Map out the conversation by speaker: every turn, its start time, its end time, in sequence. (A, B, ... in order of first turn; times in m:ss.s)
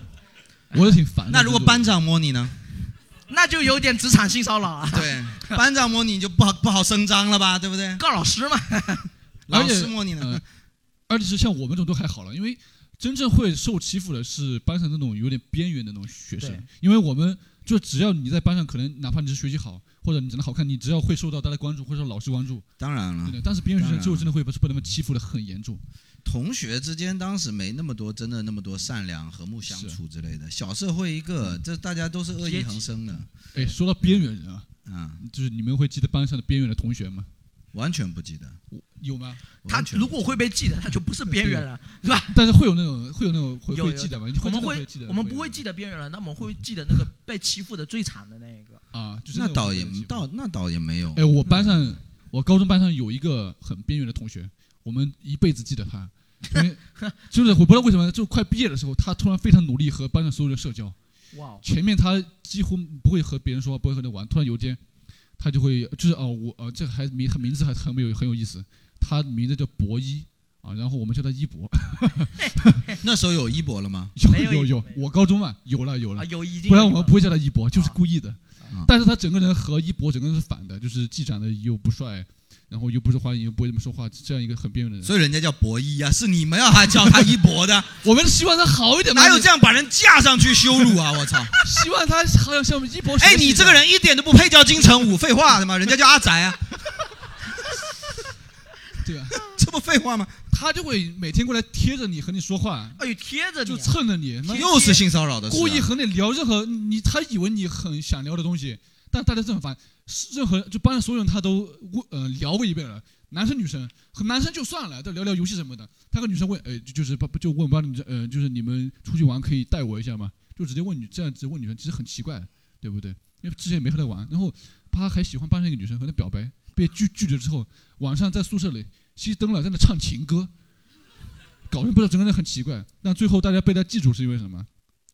0:00.7-0:01.9 A
0:01.3-0:02.6 B
0:03.3-0:05.6 C
0:04.9-0:08.0 B
0:08.0-0:09.1 C
0:09.5-0:10.4 B
0:09.5-0:10.4 A
0:11.1-0:22.7 A
0:16.4-0:16.7 C
0:22.8-0:24.3 B
0:23.2-0:25.8 A
0:26.2-0:33.3 B
0:29.7-0:30.0 A
0:32.4-0:32.9 C
0:33.5-0:34.7 A
0:34.8-0:35.2 B
0:35.2-0:37.3 A
0:37.7-0:38.6 B
0:38.7-0:39.4 A
0:39.6-0:40.3 B
0:39.7-0:42.4 C
0:41.3-0:41.6 A
0:42.3-0:45.6 A
0:43.7-0:48.8 C
0:48.9-0:50.2 A
0:49.3-0:51.2 B
0:51.1-1:01.0 A
0:56.6-0:57.1 C
1:01.3-1:01.6 C
1:01.6-1:04.8 A
1:05.4-1:12.5 A
1:13.0-1:14.1 B
1:14.2-1:25.1 A
1:14.3-1:15.0 C
1:16.2-1:17.2 C
1:25.0-1:28.0 B
1:28.0-1:29.5 A
1:29.1-1:31.5 B
1:31.6-1:33.8 A
1:33.2-1:36.7 B
1:39.0-1:39.4 A
1:39.4-1:40.4 B
1:40.5-1:43.0 A
1:43.0-1:45.0 C
1:43.6-1:44.7 A
1:44.5-1:45.9 B
1:45.5-2:10.5 A
2:11.7-2:14.7 A